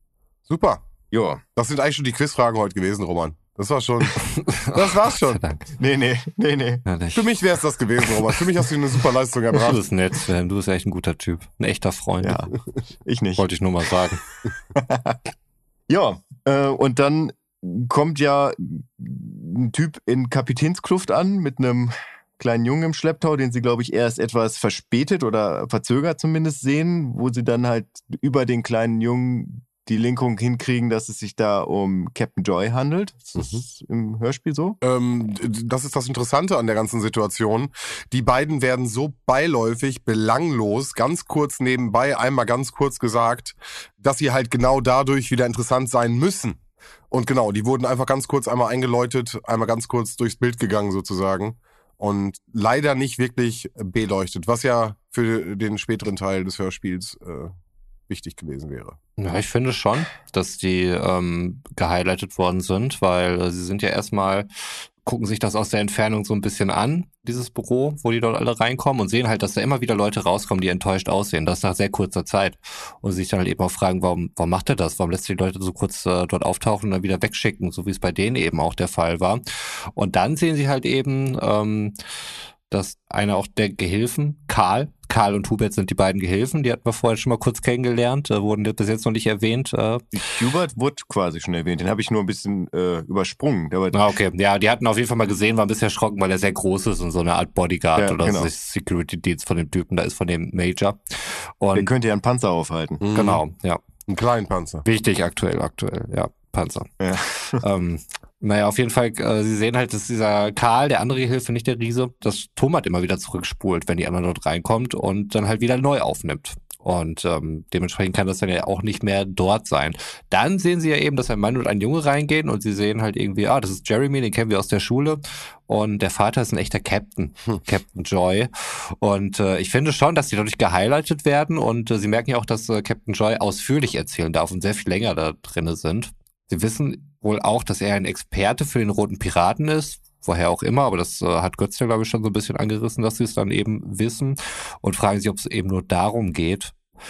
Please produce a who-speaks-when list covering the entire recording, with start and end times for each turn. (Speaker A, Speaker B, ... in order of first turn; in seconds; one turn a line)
Speaker A: 0.5-0.8
Speaker B: 1.1-1.4
Speaker A: 1.6-5.4
Speaker C: 4.3-5.6
Speaker B: 5.8-6.8
Speaker C: 6.9-7.4
Speaker A: 7.2-9.8
Speaker C: 8.0-8.7
Speaker C: 9.5-12.4
Speaker B: 12.2-12.5
Speaker B: 13.1-13.4
Speaker C: 13.4-14.2
Speaker B: 14.7-15.2
Speaker B: 15.9-34.8
Speaker A: 33.4-33.6
Speaker A: 34.8-46.6
Speaker A: 47.1-57.5
Speaker A: 58.1-59.0
Speaker C: 59.2-64.5
Speaker C: 65.0-82.0
Speaker C: 82.7-90.0
Speaker B: 90.1-94.0
Speaker C: 93.9-101.9
Speaker B: 98.0-98.5
Speaker B: 101.7-103.0
Speaker A: 103.0-103.4
Speaker C: 103.1-103.8
Speaker A: 104.1-104.8
Speaker C: 104.8-107.0
Speaker B: 107.0-107.6
Speaker C: 107.5-146.8